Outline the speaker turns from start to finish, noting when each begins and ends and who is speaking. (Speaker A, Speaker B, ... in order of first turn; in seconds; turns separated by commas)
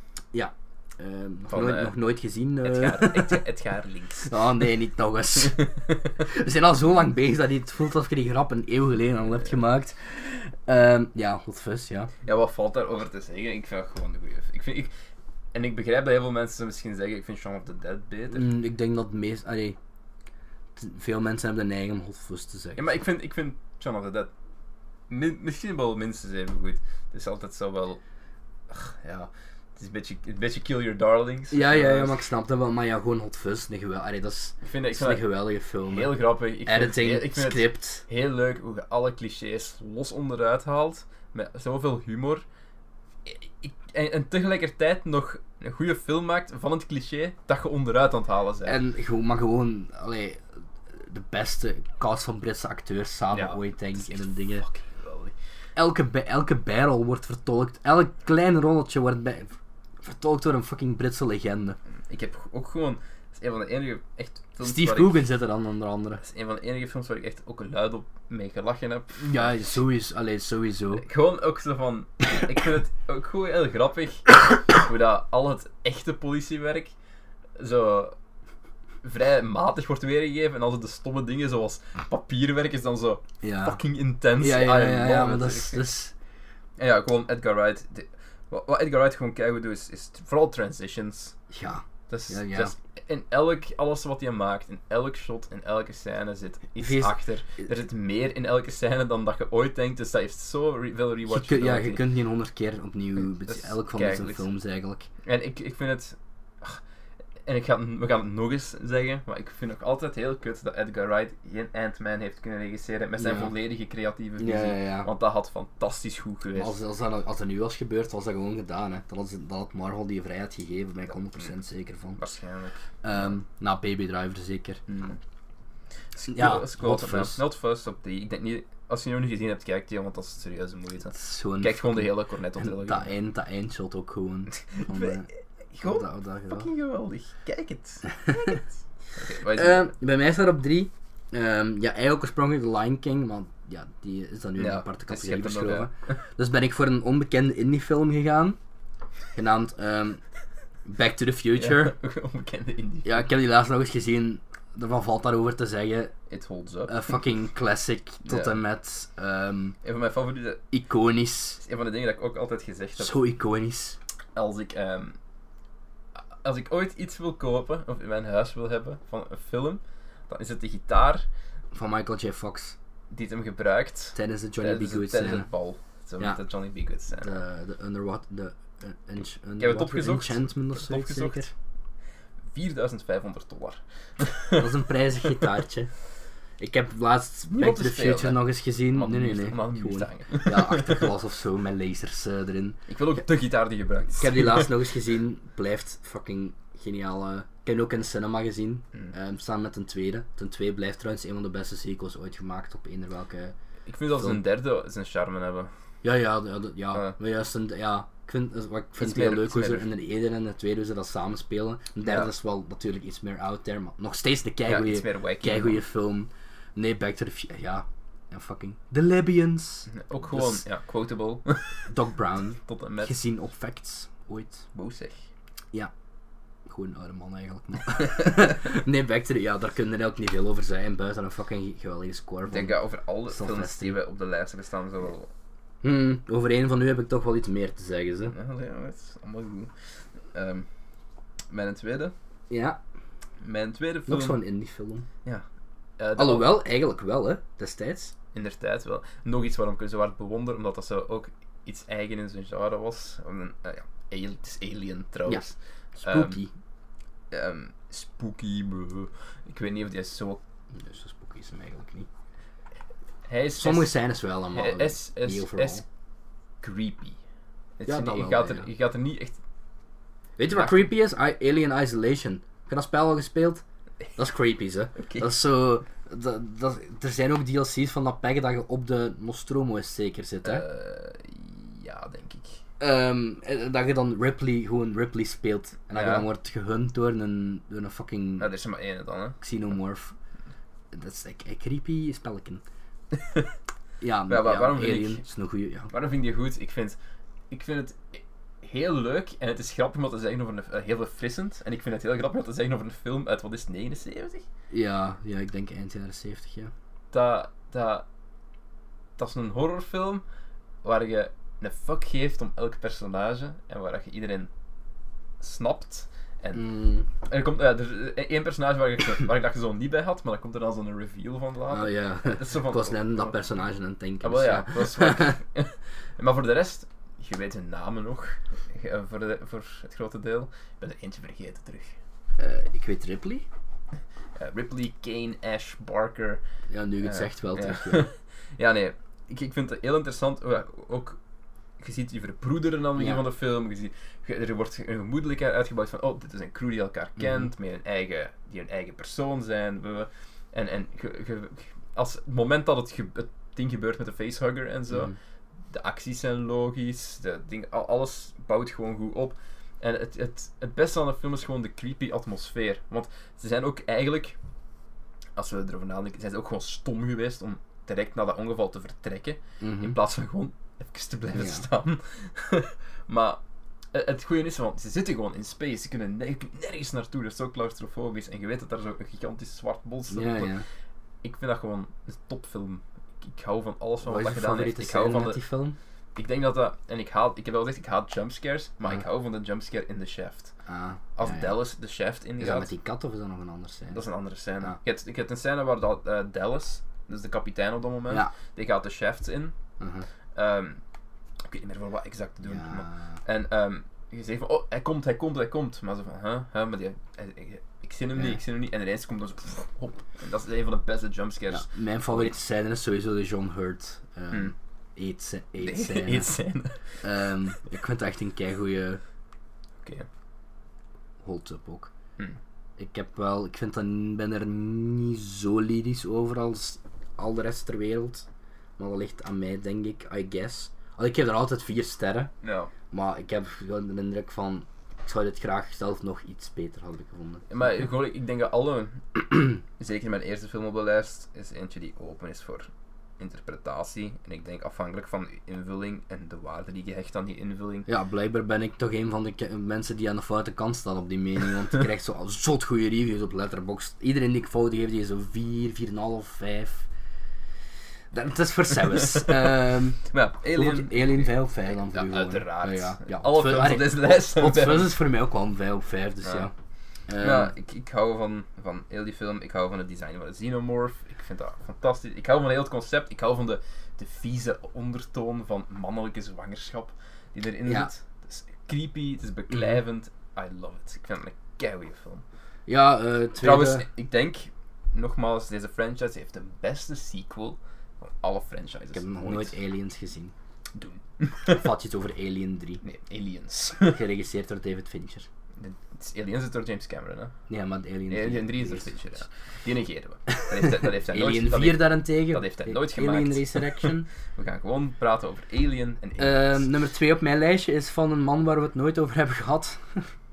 Speaker A: 0.3-3.4, Speaker B: 1.5-1.9, Speaker B: 2.6-4.3, Speaker A: 4.2-5.7, Speaker B: 5.4-6.1, Speaker A: 6.2-12.1, Speaker B: 12.2-14.9, Speaker B: 15.5-18.5, Speaker A: 18.3-19.8, Speaker A: 20.8-22.9, Speaker B: 22.7-24.3, Speaker B: 25.1-28.0, Speaker B: 28.7-32.2, Speaker A: 31.5-38.0, Speaker B: 34.6-35.2, Speaker B: 35.9-42.5, Speaker B: 43.2-48.8, Speaker A: 48.6-50.4, Speaker A: 51.0-54.6, Speaker B: 53.3-55.4, Speaker A: 55.8-61.8, Speaker B: 62.1-65.2, Speaker A: 64.6-66.2, Speaker B: 66.2-69.5, Speaker A: 69.2-71.0, Speaker B: 70.9-76.9, Speaker B: 77.6-78.2, Speaker B: 79.0-85.9, Speaker A: 83.4-83.8, Speaker A: 84.4-86.1, Speaker B: 86.8-91.4, Speaker A: 91.5-92.7, Speaker B: 92.1-102.0, Speaker A: 96.8-97.2, Speaker A: 101.3-105.1, Speaker B: 103.2-104.5, Speaker B: 105.2-106.8, Speaker B: 107.5-116.8, Speaker A: 113.2-113.5, Speaker A: 114.4-115.1, Speaker A: 116.5-122.2, Speaker B: 122.2-123.3, Speaker A: 123.0-124.8, Speaker B: 124.9-125.2, Speaker B: 126.1-133.1, Speaker A: 126.3-127.4, Speaker A: 131.1-135.3, Speaker B: 134.5-139.9, Speaker A: 135.8-136.7, Speaker A: 139.5-148.6, Speaker B: 144.6-146.1, Speaker A: 149.3-150.2, Speaker A: 150.9-151.9, Speaker B: 151.5-153.2, Speaker A: 153.1-156.1, Speaker B: 156.3-157.2, Speaker A: 156.9-159.8, Speaker B: 158.2-158.6, Speaker B: 159.8-160.6, Speaker A: 160.7-161.6, Speaker B: 161.6-163.2, Speaker A: 163.0-164.0, Speaker B: 164.3-165.2, Speaker B: 166.4-171.3, Speaker A: 171.7-172.8, Speaker B: 173.1-177.4, Speaker A: 174.2-175.5, Speaker A: 177.2-181.5, Speaker B: 179.6-181.5, Speaker B: 182.5-184.7, Speaker A: 184.5-185.9, Speaker A: 186.6-192.8, Speaker B: 187.5-191.1, Speaker B: 192.9-194.7, Speaker A: 194.2-203.6, Speaker B: 203.9-205.7, Speaker A: 206.0-220.6, Speaker B: 209.0-209.9, Speaker B: 212.0-212.3, Speaker B: 214.7-215.8, Speaker B: 219.9-221.8, Speaker A: 221.9-224.7, Speaker B: 222.6-223.2, Speaker B: 224.7-225.3, Speaker A: 226.7-234.0, Speaker B: 232.5-235.3, Speaker A: 235.8-238.3, Speaker B: 238.3-239.7, Speaker B: 240.3-240.7, Speaker B: 241.5-242.1, Speaker A: 242.5-242.8, Speaker B: 243.4-244.4, Speaker A: 244.1-245.1, Speaker B: 246.0-246.5, Speaker A: 246.2-248.1, Speaker B: 248.3-256.4, Speaker A: 255.3-256.5, Speaker B: 257.3-260.4, Speaker A: 260.7-262.1, Speaker B: 263.3-264.0, Speaker A: 263.6-265.8, Speaker B: 264.5-265.8, Speaker B: 266.6-267.2, Speaker B: 267.8-269.4, Speaker A: 267.9-268.7, Speaker A: 270.4-273.6, Speaker B: 270.5-270.9, Speaker A: 274.1-280.6, Speaker B: 274.9-275.3, Speaker B: 280.4-282.6, Speaker A: 282.8-288.5, Speaker B: 285.9-286.3, Speaker B: 288.4-289.4, Speaker A: 289.4-290.1, Speaker A: 290.9-292.6, Speaker B: 293.1-293.5, Speaker A: 294.0-295.9, Speaker B: 294.3-295.2, Speaker B: 295.9-297.0, Speaker B: 297.5-304.4, Speaker A: 304.7-306.7, Speaker B: 307.1-308.1, Speaker B: 309.2-310.2, Speaker B: 310.8-314.5, Speaker B: 315.4-316.6, Speaker A: 316.5-317.1, Speaker B: 317.2-323.4, Speaker A: 321.7-325.4, Speaker B: 324.2-332.0, Speaker A: 332.4-333.4, Speaker B: 334.4-336.4, Speaker A: 336.7-338.1, Speaker B: 337.0-341.2, Speaker B: 341.8-355.1, Speaker A: 343.0-343.2, Speaker A: 347.2-347.5, Speaker A: 354.9-355.1, Speaker B: 355.7-364.4, Speaker B: 365.4-373.4, Speaker A: 369.6-369.9, Speaker A: 371.4-371.6, Speaker B: 373.9-380.6, Speaker A: 380.1-380.6, Speaker B: 381.2-385.4, Speaker A: 384.0-385.8, Speaker B: 386.1-390.5, Speaker A: 390.7-391.6, Speaker B: 391.1-392.7, Speaker A: 392.4-394.0, Speaker B: 393.9-399.6, Speaker A: 399.8-400.1, Speaker B: 400.4-400.8, Speaker B: 401.4-412.4, Speaker A: 402.4-403.2, Speaker A: 411.5-416.3, Speaker B: 415.6-416.9, Speaker A: 417.0-419.0, Speaker B: 419.8-420.1, Speaker A: 421.2-421.9, Speaker A: 422.8-428.2, Speaker A: 428.8-432.3, Speaker B: 432.4-432.7, Speaker A: 432.9-437.5, Speaker B: 437.5-447.9, Speaker A: 447.9-456.9, Speaker A: 458.1-460.0, Speaker B: 458.7-459.5, Speaker B: 460.0-464.9, Speaker A: 460.5-466.5, Speaker B: 466.2-466.5, Speaker A: 467.1-467.5, Speaker B: 467.2-482.2, Speaker A: 482.7-483.9, Speaker B: 483.4-489.6, Speaker A: 488.9-490.3, Speaker B: 490.7-491.7, Speaker A: 491.5-492.8, Speaker B: 492.8-494.0, Speaker A: 493.8-495.3, Speaker B: 495.6-497.3, Speaker A: 497.5-499.0, Speaker B: 498.1-506.7, Speaker A: 500.3-504.1, Speaker A: 506.2-510.1